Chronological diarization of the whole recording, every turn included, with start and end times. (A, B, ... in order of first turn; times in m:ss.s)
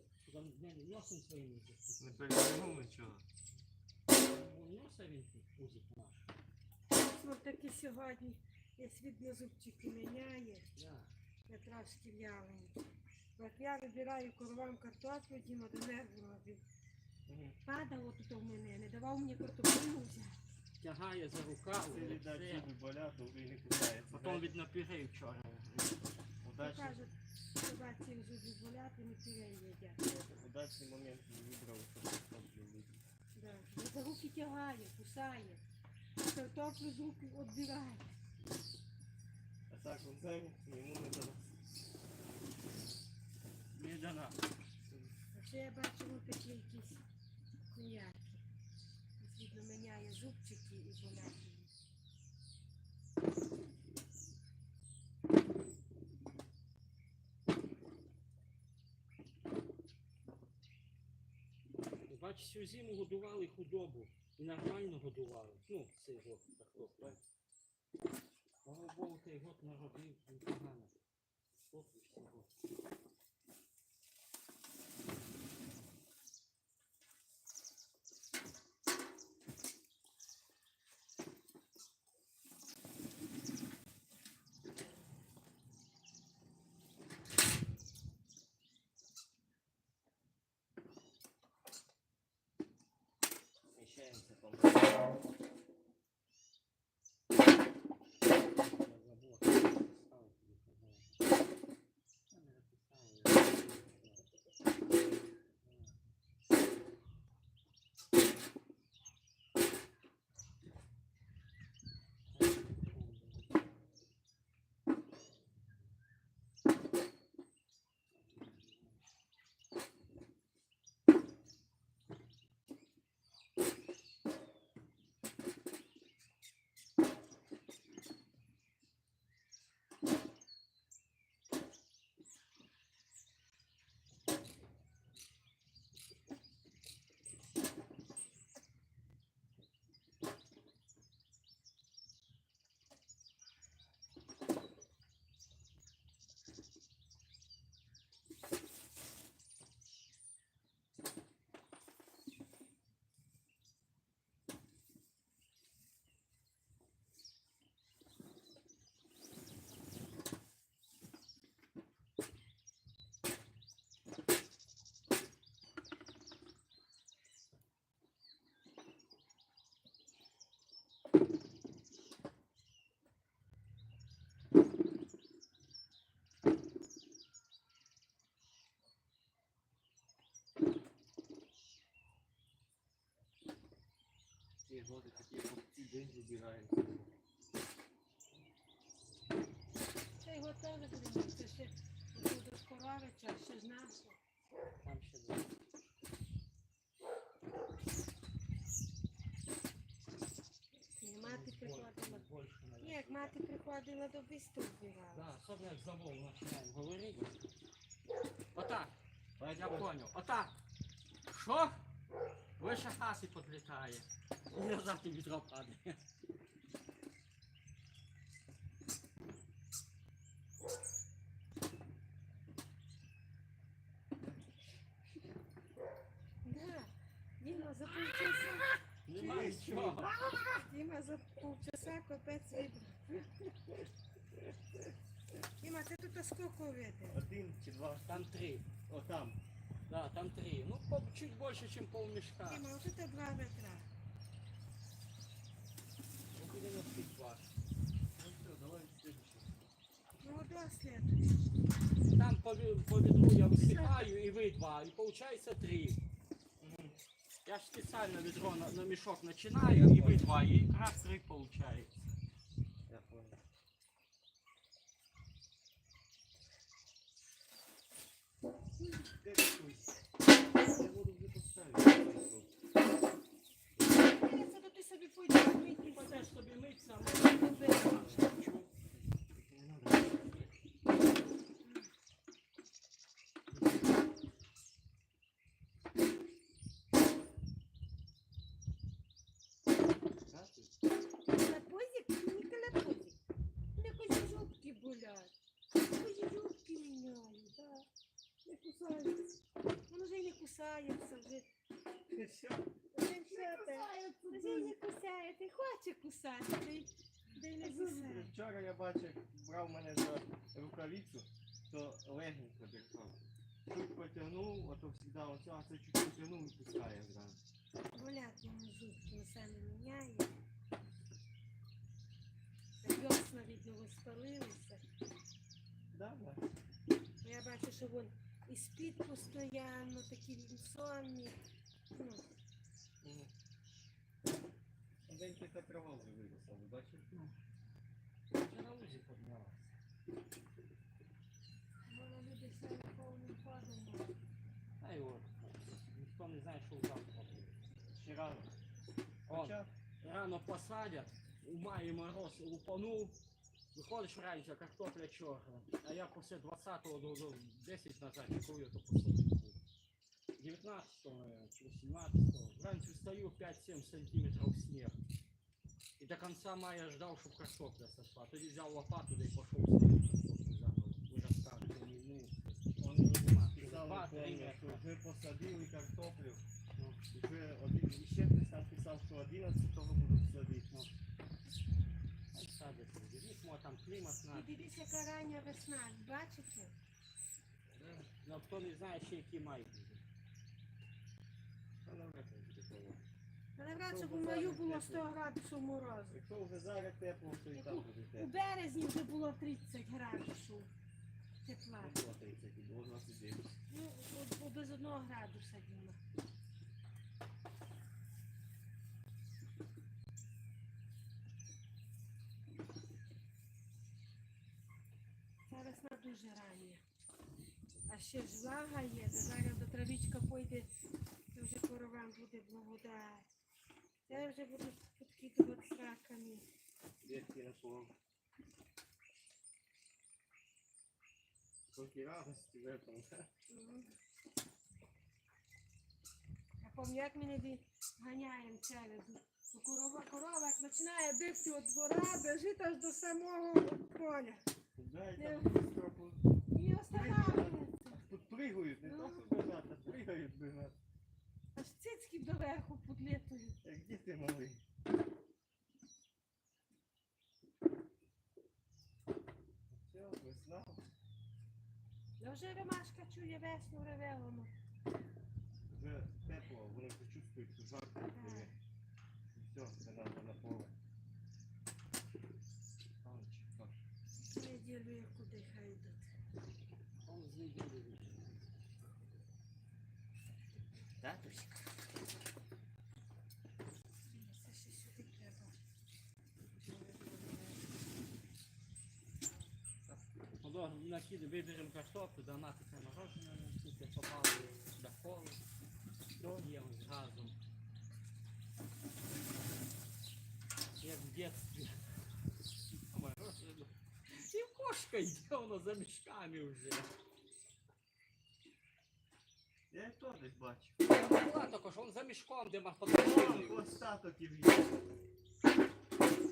0:00.2-0:02.2 A
0:02.0-0:03.2 B
0:04.2-0:06.3 A
0:07.0-0:10.7 C
0:10.8-0:11.1 A
0:11.5-0:12.8 C
0:13.4-0:16.6 C
0:17.3-0:17.6 B
0:17.6-0:20.4 C
0:20.8-0:22.7 A
0:21.8-0:24.5 B
0:24.1-0:26.1 A
0:26.4-0:27.0 B
0:26.6-0:30.0 C
0:30.0-0:33.0 B
0:33.4-0:35.6 C
0:36.2-0:38.1 C
0:39.7-0:41.5 B
0:43.7-0:44.4 A
0:44.9-0:45.1 B
0:45.3-0:47.0 C
0:47.7-0:48.4 C
0:49.2-0:51.8 C
1:02.1-1:07.2 A
1:06.8-1:07.2 B
1:08.6-1:10.9 A
1:11.7-1:12.5 A
1:33.7-1:35.1 B
1:38.6-1:41.2 A
1:42.3-1:44.3 A
1:45.6-1:46.0 A
1:52.3-1:53.6 A
1:58.2-1:59.0 A
3:04.7-3:07.1 B
3:10.2-3:14.2 C
3:14.8-3:15.6 A
3:21.0-3:22.2 C
3:21.2-3:23.4 A
3:22.8-3:25.3 C
3:25.1-3:27.4 A
3:28.5-3:28.9 A
3:29.4-3:29.9 B
3:29.5-3:30.6 A
3:31.3-3:31.8 A
3:32.6-3:36.0 A
3:46.4-3:49.6 C
3:49.1-3:50.1 A
3:49.1-3:50.5 B
3:50.3-3:53.3 C
3:55.6-3:57.2 C
3:57.1-3:58.3 B
3:58.0-3:58.7 A
3:58.9-3:59.4 B
3:59.9-4:02.7 A
4:02.5-4:03.9 C
4:06.4-4:07.5 A
4:08.1-4:09.6 B
4:10.2-4:11.5 C
4:12.1-4:16.0 A
4:13.5-4:14.0 C
4:16.6-4:17.0 B
4:17.5-4:21.9 A
4:19.6-4:20.4 B
4:22.9-4:23.4 B
4:28.8-4:29.9 B
4:30.6-4:32.5 B
4:34.1-4:36.3 C
4:35.8-4:38.7 A
4:37.0-4:38.1 C
4:37.8-4:38.4 B
4:39.1-4:40.5 B
4:41.6-4:41.9 C
4:50.3-4:50.7 B
4:51.3-4:53.2 C
4:53.8-4:57.9 C
4:58.4-4:59.2 B
4:59.9-5:01.5 C
5:02.1-5:04.8 B
5:02.9-5:08.4 C
5:07.6-5:17.4 B
5:17.9-5:20.3 C
5:22.8-5:24.8 C
5:25.9-5:26.5 B
5:27.2-5:31.4 C
5:31.9-5:32.3 C
5:33.0-5:33.3 B
5:35.0-5:37.1 B
5:38.3-5:39.7 A
5:41.8-5:44.2 C
5:44.8-5:47.5 A
5:48.0-5:48.5 B
5:49.3-5:53.2 A
5:49.3-5:49.7 B
5:53.7-5:59.6 A
6:00.4-6:05.0 A
6:06.0-6:14.8 A
6:12.8-6:16.4 B
6:16.8-6:17.2 A
6:17.2-6:20.7 B
6:22.3-6:24.7 A
6:24.3-6:26.7 C
6:27.8-6:28.1 B
6:28.1-6:30.0 A
6:31.8-6:33.0 B
6:33.6-6:36.2 C
6:33.9-6:35.1 B
6:36.1-6:38.3 B
6:37.5-6:40.7 C
6:41.4-6:42.0 C
6:41.8-6:43.5 B
6:43.7-6:46.0 C
6:55.5-6:56.8 C
6:57.9-7:00.7 C
7:01.3-7:03.3 C
7:04.1-7:06.5 C
7:07.0-7:08.0 B
7:11.7-7:13.3 B
7:13.5-7:14.0 C
7:16.6-7:24.4 C
7:24.8-7:26.2 B
7:25.2-7:25.6 C
7:26.5-7:28.0 C
7:26.9-7:30.8 B
7:28.8-7:29.3 C
7:31.5-7:33.6 C
7:33.6-7:34.6 B
7:39.7-7:40.9 B
7:42.2-7:44.5 C
7:45.7-7:48.5 B
7:48.1-7:48.5 C
7:49.3-7:50.7 B
7:53.0-7:53.8 B
7:54.3-7:56.1 C
7:57.0-7:58.4 A
8:01.0-8:01.6 B
8:04.0-8:05.6 C
8:10.4-8:15.4 A
8:16.2-8:16.5 B
8:16.2-8:17.4 A
8:20.8-8:21.8 A
8:22.7-8:26.9 A
8:29.7-8:30.8 B
8:30.8-8:33.8 A
8:32.9-8:34.7 B